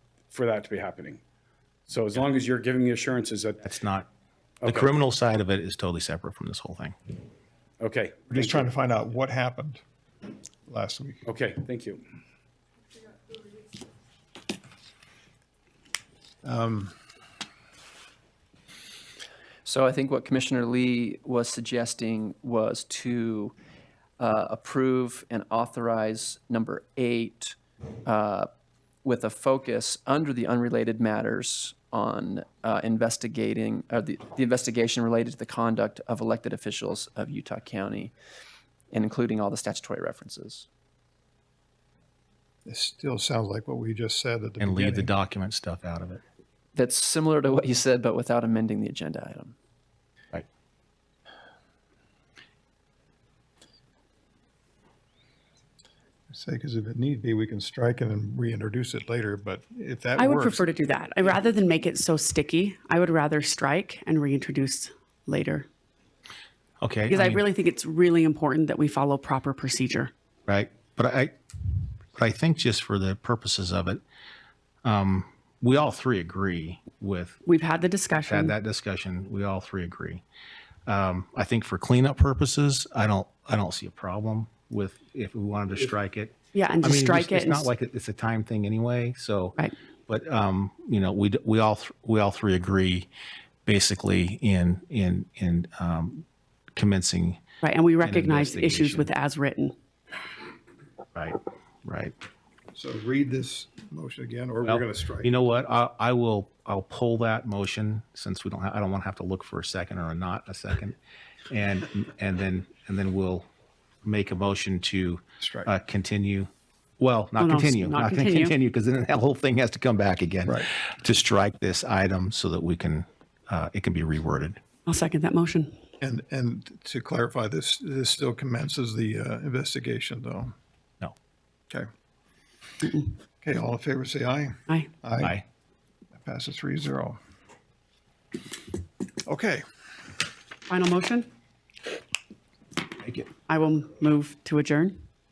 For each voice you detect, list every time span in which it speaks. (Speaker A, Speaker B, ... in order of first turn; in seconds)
Speaker A: 0.3-1.2, 1.9-3.6, 4.6-4.9, 7.8-8.7, 11.2-12.0
Speaker B: 3.6-4.1, 4.7-7.0, 44.6-46.2, 66.8-67.5, 70.5-71.3, 72.2-74.0, 74.8-77.4, 78.2-80.2, 80.9-93.1, 93.7-97.4, 98.0-99.1, 101.2-102.2, 104.7-111.0, 111.5-113.5, 114.0-124.6
Speaker C: 8.3-9.8, 10.7-11.2, 16.4-17.0, 42.6-45.1, 56.3-60.6, 102.7-105.3, 115.4-115.7, 126.0-130.5, 133.4-135.4, 136.1-137.2, 139.2-139.6
Speaker D: 19.6-23.5, 24.2-28.5, 29.0-38.1, 38.9-40.7, 46.8-49.5
Speaker E: 60.2-65.7, 67.1-70.1, 77.5-78.5, 86.5-87.7, 97.6-99.8, 117.4-118.5, 124.9-125.8, 140.7-141.3, 143.5-145.0